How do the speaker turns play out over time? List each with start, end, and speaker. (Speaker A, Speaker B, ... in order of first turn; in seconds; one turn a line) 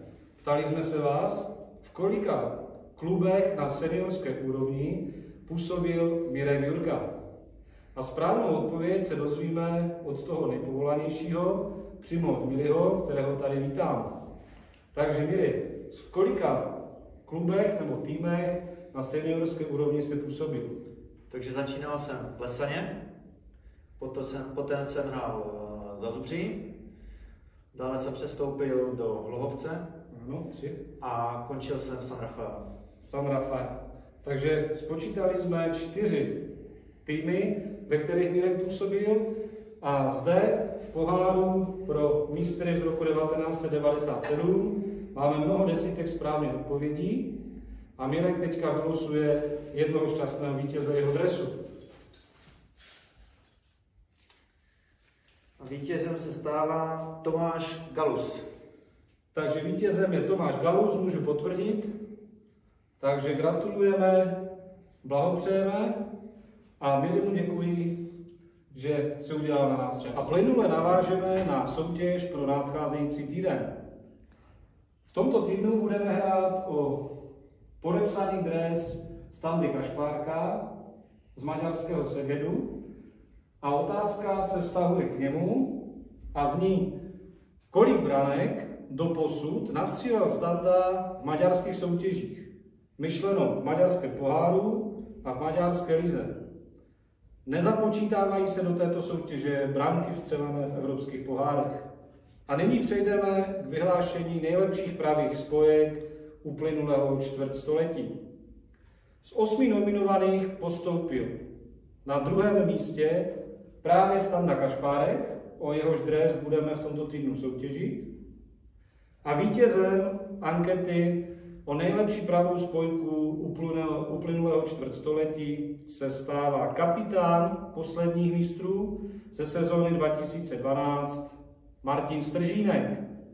Speaker A: 0.4-7.1
Speaker A: 7.9-14.1
Speaker A: 14.9-16.7
Speaker A: 17.2-20.8
Speaker B: 21.3-22.9
Speaker B: 24.0-26.7
Speaker B: 27.7-29.9
Speaker A: 30.1-30.8
Speaker B: 31.0-32.6
Speaker A: 33.0-36.4
Speaker A: 37.0-39.2
Speaker A: 39.8-47.3
Speaker A: 48.0-51.5
Speaker B: 55.6-58.4
Speaker A: 59.3-61.9
Speaker A: 63.0-64.4
Speaker A: 65.0-66.0
Speaker A: 66.8-68.0
Speaker A: 68.7-73.7
Speaker A: 75.1-77.1
Speaker A: 77.8-80.7
Speaker A: 81.3-82.7
Speaker A: 83.6-86.9
Speaker A: 87.7-96.3
Speaker A: 97.4-101.9
Speaker A: 102.5-108.1
Speaker A: 109.2-111.3
Speaker A: 112.0-113.3
Speaker A: 113.8-118.1
Speaker A: 119.2-133.0